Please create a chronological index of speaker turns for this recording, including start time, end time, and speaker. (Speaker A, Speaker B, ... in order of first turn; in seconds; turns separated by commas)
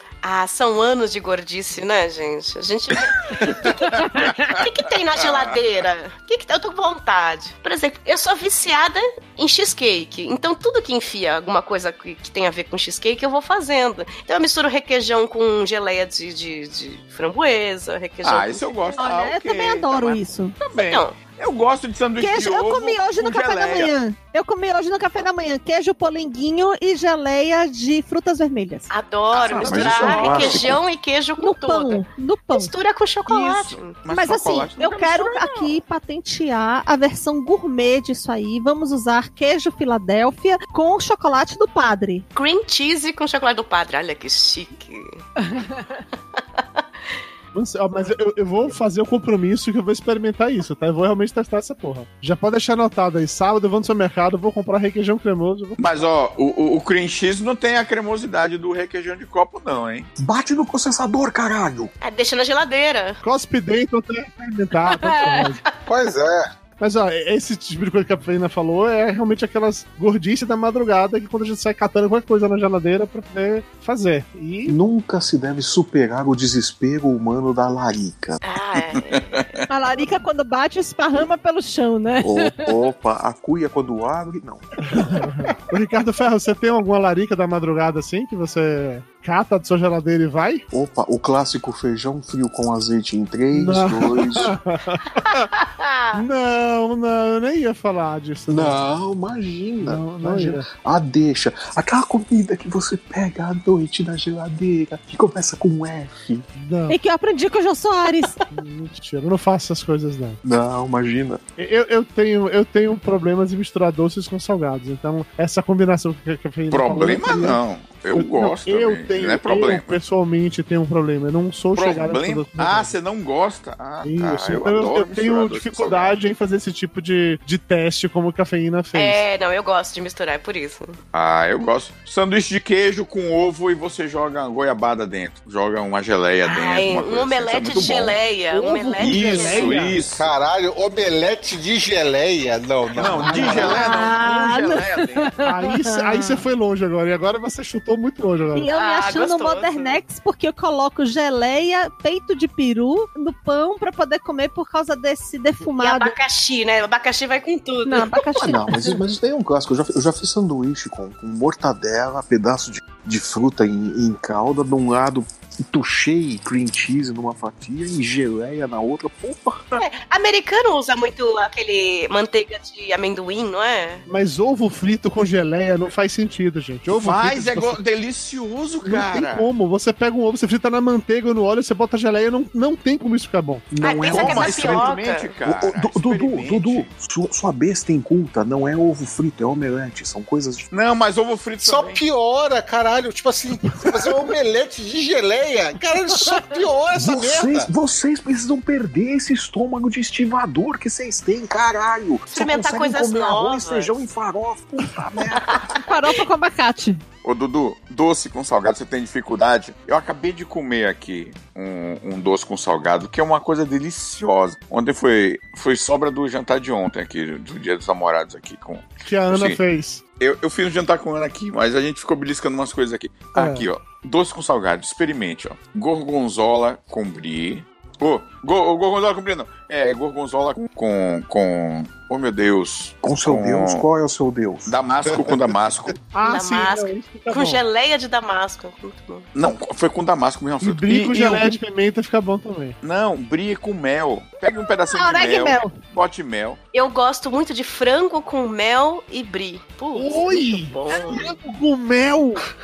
Speaker A: 0.2-18.6, Speaker B: 3.4-4.6, Speaker B: 5.2-5.6, Speaker B: 18.2-23.9, Speaker C: 19.0-20.5, Speaker A: 20.7-21.2, Speaker C: 22.2-28.9, Speaker A: 28.9-34.0, Speaker B: 29.3-30.7, Speaker D: 29.4-30.8, Speaker C: 31.4-32.7, Speaker B: 33.3-35.4, Speaker C: 34.1-42.2, Speaker A: 42.3-45.2, Speaker E: 47.5-56.1, Speaker B: 55.8-60.1, Speaker D: 60.2-61.9, Speaker A: 62.0-63.2, Speaker E: 63.2-65.6, Speaker F: 65.9-66.5, Speaker E: 66.8-74.7, Speaker D: 74.7-78.4, Speaker A: 78.4-79.2, Speaker B: 79.0-79.5, Speaker C: 79.7-82.6, Speaker D: 82.2-84.7, Speaker E: 84.9-90.6, Speaker D: 90.7-94.5, Speaker E: 93.5-95.5, Speaker A: 95.6-96.2, Speaker E: 96.1-98.8, Speaker D: 98.5-106.5, Speaker E: 99.8-100.6, Speaker E: 106.6-107.0, Speaker C: 106.9-108.4, Speaker E: 108.5-110.4, Speaker D: 110.4-111.4, Speaker E: 111.6-117.6, Speaker B: 116.7-120.0, Speaker E: 118.1-123.0, Speaker B: 121.7-126.1, Speaker E: 124.0-129.2, Speaker A: 128.9-131.0, Speaker B: 131.1-138.2, Speaker A: 136.4-139.9, Speaker E: 138.5-140.0, Speaker B: 139.0-140.3, Speaker F: 140.1-143.9, Speaker B: 142.9-145.4, Speaker E: 143.1-143.9, Speaker C: 143.5-146.4, Speaker E: 145.4-148.7, Speaker C: 148.5-156.1, Speaker A: 148.7-150.0, Speaker A: 155.8-158.2, Speaker C: 157.8-159.0, Speaker D: 158.3-169.6, Speaker A: 169.8-174.0, Speaker E: 174.1-177.8, Speaker B: 176.9-179.5, Speaker E: 178.8-183.7, Speaker D: 183.7-190.7, Speaker A: 183.8-185.3, Speaker B: 184.1-186.9, Speaker B: 190.7-192.0, Speaker F: 191.6-197.7, Speaker D: 196.9-205.7, Speaker A: 202.3-204.0, Speaker C: 205.8-207.0, Speaker B: 207.2-219.6, Speaker E: 219.0-220.0, Speaker B: 220.2-233.8, Speaker E: 223.3-223.7, Speaker D: 233.0-234.7, Speaker B: 234.7-235.9, Speaker F: 235.1-235.5, Speaker E: 236.1-237.6, Speaker A: 236.2-239.3, Speaker B: 239.3-241.6, Speaker E: 240.6-242.8, Speaker B: 242.8-246.6, Speaker C: 244.9-245.7, Speaker A: 246.7-251.3, Speaker E: 249.9-252.4